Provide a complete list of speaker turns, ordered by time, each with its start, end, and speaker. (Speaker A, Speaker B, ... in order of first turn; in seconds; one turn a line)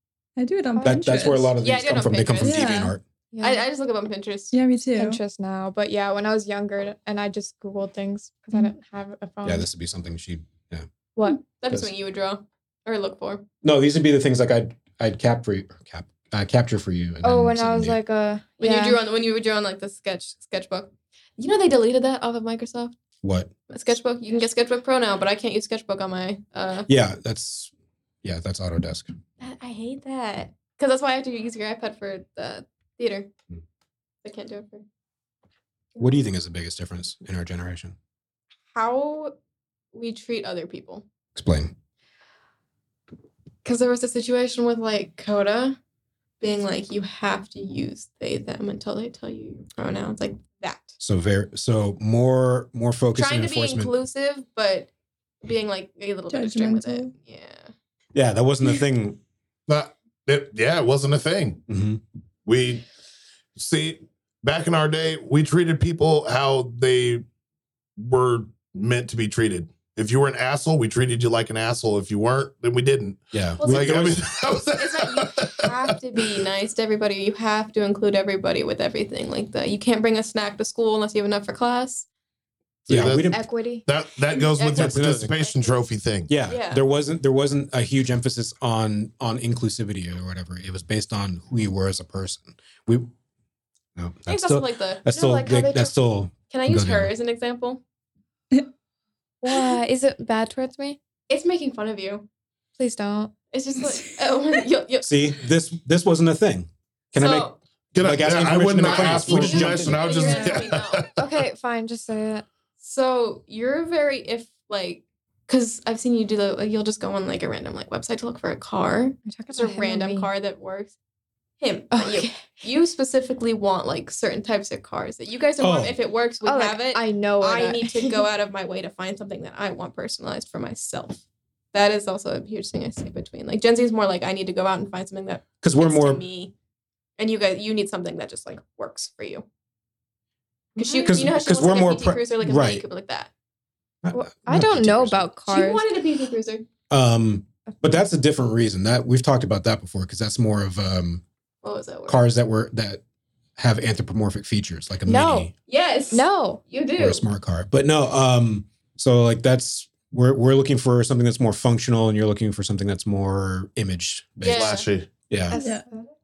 Speaker A: 0.4-1.5
Speaker B: 0.7-1.1
Speaker C: 0.8-3.0
Speaker D: 1.6-2.8
Speaker A: 2.4-2.9
Speaker B: 3.3-3.6
Speaker D: 3.4-4.5
Speaker A: 4.5-5.2
Speaker B: 4.9-9.7
Speaker C: 9.4-10.9
Speaker D: 11.6-13.4
Speaker C: 13.6-18.0
Speaker B: 17.2-19.0
Speaker D: 18.6-22.9
Speaker C: 23.2-23.5
Speaker D: 23.7-26.9
Speaker C: 26.9-27.7
Speaker C: 28.2-29.1
Speaker D: 29.4-33.3
Speaker D: 34.2-34.8
Speaker C: 36.0-38.0
Speaker D: 38.7-39.3
Speaker D: 39.9-41.0
Speaker C: 41.4-41.7
Speaker D: 43.6-45.8
Speaker D: 46.4-51.0
Speaker C: 51.0-53.9
Speaker D: 53.1-54.9
Speaker D: 55.4-57.7
Speaker A: 56.3-57.1
Speaker C: 58.1-59.2
Speaker E: 59.7-61.6
Speaker C: 61.7-62.0
Speaker E: 62.5-62.8
Speaker E: 63.5-67.2
Speaker E: 68.0-76.2
Speaker C: 73.3-74.2
Speaker D: 73.6-74.1
Speaker D: 74.7-82.1
Speaker E: 82.9-86.3
Speaker C: 82.9-83.4
Speaker B: 83.1-83.9
Speaker D: 84.3-85.9
Speaker C: 84.7-85.3
Speaker C: 86.3-93.1
Speaker D: 86.4-86.8
Speaker C: 94.0-97.1
Speaker D: 94.3-95.7
Speaker B: 95.1-95.9
Speaker D: 96.5-97.8
Speaker B: 99.4-101.0
Speaker D: 101.3-102.3
Speaker B: 102.8-103.3
Speaker D: 103.5-105.3
Speaker C: 105.0-110.1
Speaker D: 107.1-107.6
Speaker E: 107.9-111.2
Speaker D: 108.8-111.1
Speaker A: 110.1-110.7
Speaker B: 111.2-112.5
Speaker D: 112.8-120.9
Speaker B: 119.2-120.3
Speaker D: 121.6-136.5
Speaker B: 121.9-122.5
Speaker C: 125.6-126.0
Speaker B: 126.4-128.2
Speaker C: 135.6-136.2
Speaker D: 137.2-139.4
Speaker B: 140.8-141.2
Speaker D: 140.8-143.3
Speaker C: 141.0-142.8
Speaker C: 144.0-145.3
Speaker B: 144.1-145.8
Speaker D: 145.5-146.7
Speaker C: 146.9-151.2
Speaker D: 151.6-152.3
Speaker C: 152.1-153.0
Speaker C: 153.6-155.5
Speaker B: 155.1-155.5
Speaker D: 155.7-157.2
Speaker B: 156.1-156.6
Speaker C: 157.0-165.6
Speaker D: 164.4-164.9
Speaker E: 164.4-165.1
Speaker B: 165.5-166.1
Speaker A: 165.5-165.8